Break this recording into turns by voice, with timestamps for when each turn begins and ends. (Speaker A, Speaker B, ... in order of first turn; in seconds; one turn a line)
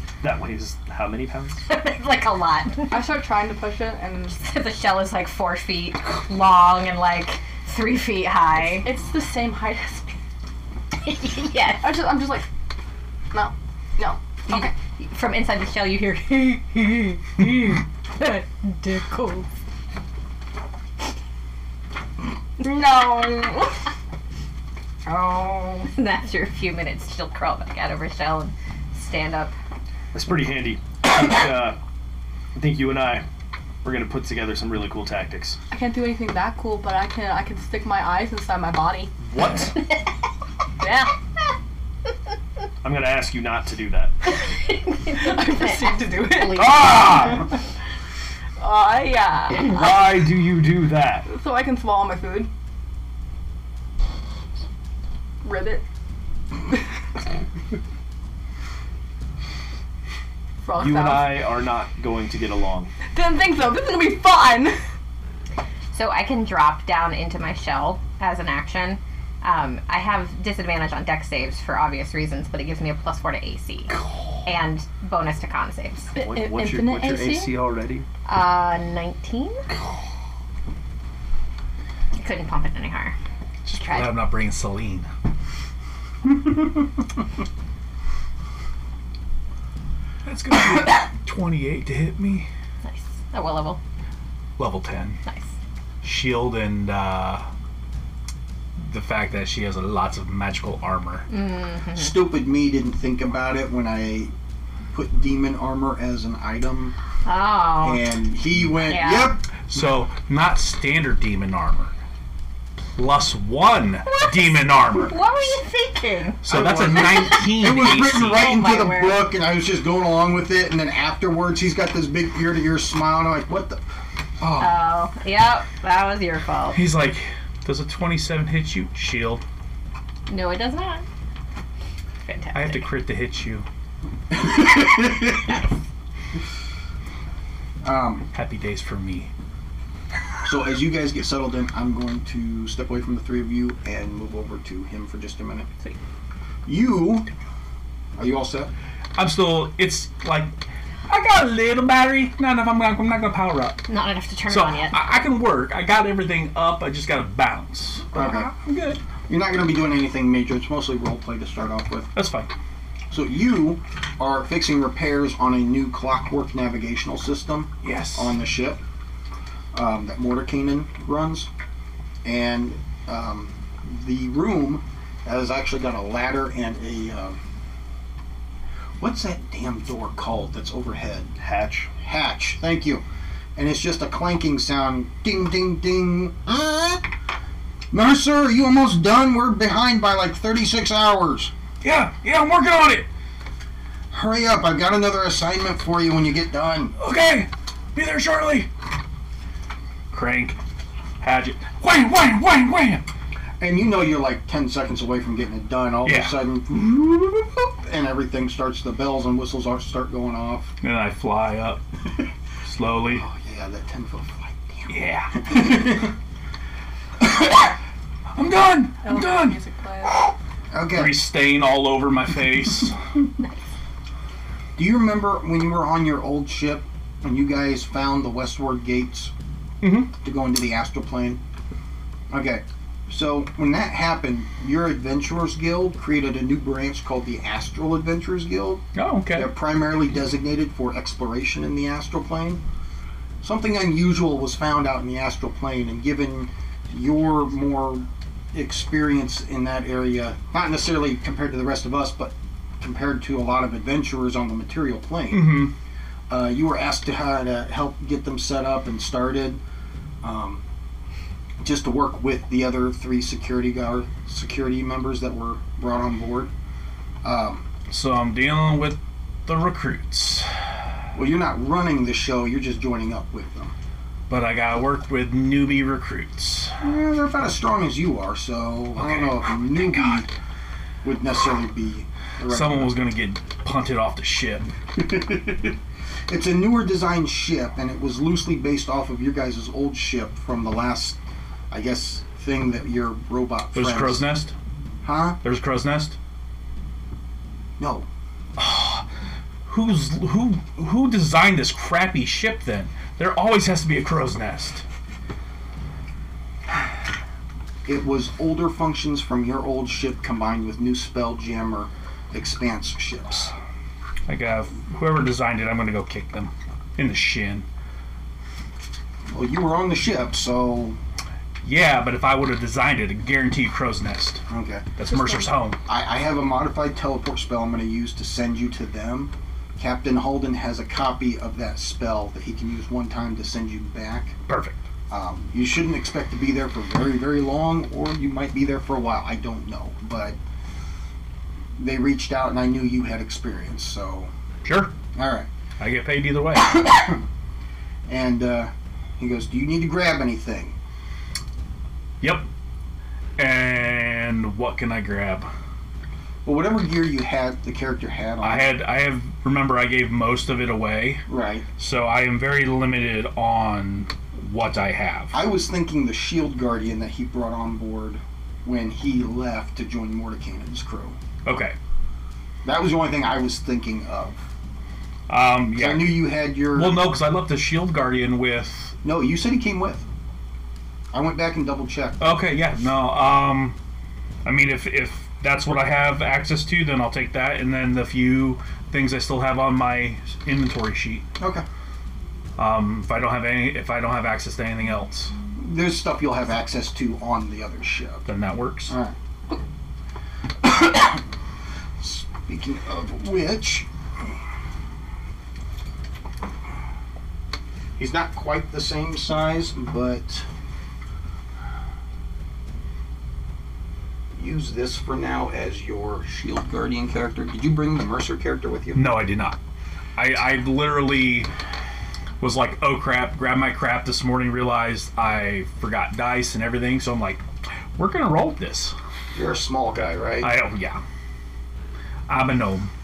Speaker A: 0.2-1.6
Speaker B: 1.7-3.0
Speaker C: 2.9-4.4
Speaker B: 4.4-8.9
Speaker C: 8.8-10.2
Speaker B: 11.0-12.0
Speaker C: 11.8-12.4
Speaker C: 13.3-14.7
Speaker B: 14.5-19.5
Speaker C: 22.6-23.8
Speaker B: 25.1-29.5
Speaker A: 30.1-31.8
Speaker A: 32.5-33.2
Speaker A: 33.8-35.6
Speaker C: 35.7-39.1
Speaker A: 39.2-39.8
Speaker C: 40.8-41.1
Speaker A: 42.8-44.3
Speaker B: 44.6-47.3
Speaker C: 45.1-46.8
Speaker A: 46.5-47.5
Speaker C: 48.6-49.8
Speaker A: 49.6-51.3
Speaker C: 51.3-52.5
Speaker C: 55.4-55.8
Speaker C: 60.6-61.4
Speaker A: 60.7-62.9
Speaker C: 63.1-64.8
Speaker B: 65.9-76.1
Speaker C: 76.1-77.5
Speaker A: 76.2-78.1
Speaker B: 78.2-79.6
Speaker B: 82.2-83.1
Speaker D: 83.7-85.1
Speaker B: 83.7-84.3
Speaker D: 90.2-92.5
Speaker B: 92.8-93.8
Speaker D: 94.6-95.2
Speaker D: 96.0-97.5
Speaker D: 98.8-101.3
Speaker B: 101.3-102.2
Speaker E: 101.9-104.3
Speaker E: 104.9-106.9
Speaker B: 107.2-108.0
Speaker E: 107.8-109.4
Speaker B: 108.8-109.3
Speaker D: 109.7-111.9
Speaker D: 112.9-115.3
Speaker B: 114.0-117.5
Speaker D: 116.4-118.5
Speaker E: 116.5-123.8
Speaker B: 118.2-119.2
Speaker E: 124.4-124.8
Speaker B: 124.6-126.8
Speaker D: 126.7-129.4
Speaker B: 130.3-131.1
Speaker B: 132.2-132.9
Speaker D: 132.5-133.6
Speaker E: 134.3-135.5
Speaker E: 137.8-138.3
Speaker D: 138.3-139.3
Speaker E: 140.4-145.7
Speaker E: 146.6-147.3
Speaker E: 148.2-148.7
Speaker D: 149.2-150.5
Speaker D: 151.1-153.8
Speaker B: 153.9-155.1
Speaker D: 154.5-159.0
Speaker E: 158.1-158.5
Speaker E: 159.3-162.1
Speaker D: 162.1-162.5
Speaker E: 163.1-168.8
Speaker D: 167.8-168.3
Speaker E: 169.7-171.5
Speaker E: 172.2-177.4
Speaker E: 179.0-181.3
Speaker A: 181.4-181.9
Speaker E: 182.0-183.0
Speaker E: 183.6-187.1
Speaker E: 187.9-191.5
Speaker D: 191.8-193.1
Speaker E: 194.1-196.9
Speaker D: 197.0-198.7
Speaker D: 200.1-200.6
Speaker D: 201.2-203.1
Speaker E: 203.6-210.7
Speaker D: 206.0-206.3
Speaker D: 210.8-211.8
Speaker D: 212.6-213.2
Speaker E: 213.1-216.1
Speaker D: 214.9-215.9
Speaker D: 217.4-217.7
Speaker D: 218.3-220.3
Speaker C: 219.0-220.2
Speaker E: 220.7-221.2
Speaker D: 220.9-223.0
Speaker E: 224.8-229.3
Speaker D: 229.8-230.1
Speaker E: 230.1-231.4
Speaker E: 232.3-242.6
Speaker D: 238.9-239.5
Speaker E: 243.4-255.7
Speaker D: 255.3-255.7
Speaker E: 256.3-259.6
Speaker E: 260.2-260.6
Speaker E: 261.6-266.5
Speaker E: 267.2-267.7
Speaker D: 267.9-270.5
Speaker E: 271.1-273.7
Speaker D: 274.3-276.8
Speaker E: 276.8-280.3
Speaker D: 279.0-280.3
Speaker E: 281.0-282.9
Speaker D: 282.5-284.7
Speaker E: 284.9-285.8
Speaker E: 286.3-291.2
Speaker E: 291.7-294.2
Speaker D: 293.7-294.5
Speaker E: 295.0-295.4
Speaker D: 295.4-296.1
Speaker E: 297.8-298.1
Speaker D: 298.6-299.1
Speaker D: 299.7-304.8
Speaker E: 307.9-313.5
Speaker D: 314.3-317.6
Speaker E: 319.3-321.0
Speaker D: 321.6-324.4
Speaker E: 324.5-324.9
Speaker D: 325.0-325.8
Speaker C: 325.1-325.6
Speaker E: 325.9-334.4
Speaker D: 334.5-334.8
Speaker E: 335.1-340.4
Speaker E: 341.8-344.3
Speaker D: 344.6-344.9
Speaker E: 345.1-345.5
Speaker D: 345.8-346.8
Speaker E: 346.6-347.2
Speaker E: 348.1-350.8
Speaker D: 352.2-352.5
Speaker D: 353.4-355.5
Speaker E: 356.4-358.7
Speaker D: 358.4-361.2
Speaker E: 361.3-361.6
Speaker D: 361.8-365.3
Speaker E: 365.3-371.2
Speaker D: 371.4-371.7
Speaker E: 372.6-374.4
Speaker D: 375.3-376.2
Speaker E: 375.7-377.0
Speaker D: 376.7-378.9
Speaker E: 379.0-380.1
Speaker E: 381.1-382.2
Speaker D: 382.2-383.8
Speaker D: 384.4-391.3
Speaker E: 391.4-391.6
Speaker D: 392.6-395.3
Speaker E: 395.6-398.3
Speaker D: 398.2-398.9
Speaker E: 398.9-399.1
Speaker E: 400.6-401.2
Speaker E: 402.0-403.9
Speaker E: 408.0-410.5
Speaker E: 414.3-419.2
Speaker D: 418.9-419.6
Speaker D: 420.1-421.5
Speaker D: 422.4-427.4
Speaker D: 427.9-428.9
Speaker E: 429.3-430.6
Speaker D: 430.4-431.0
Speaker D: 432.3-432.9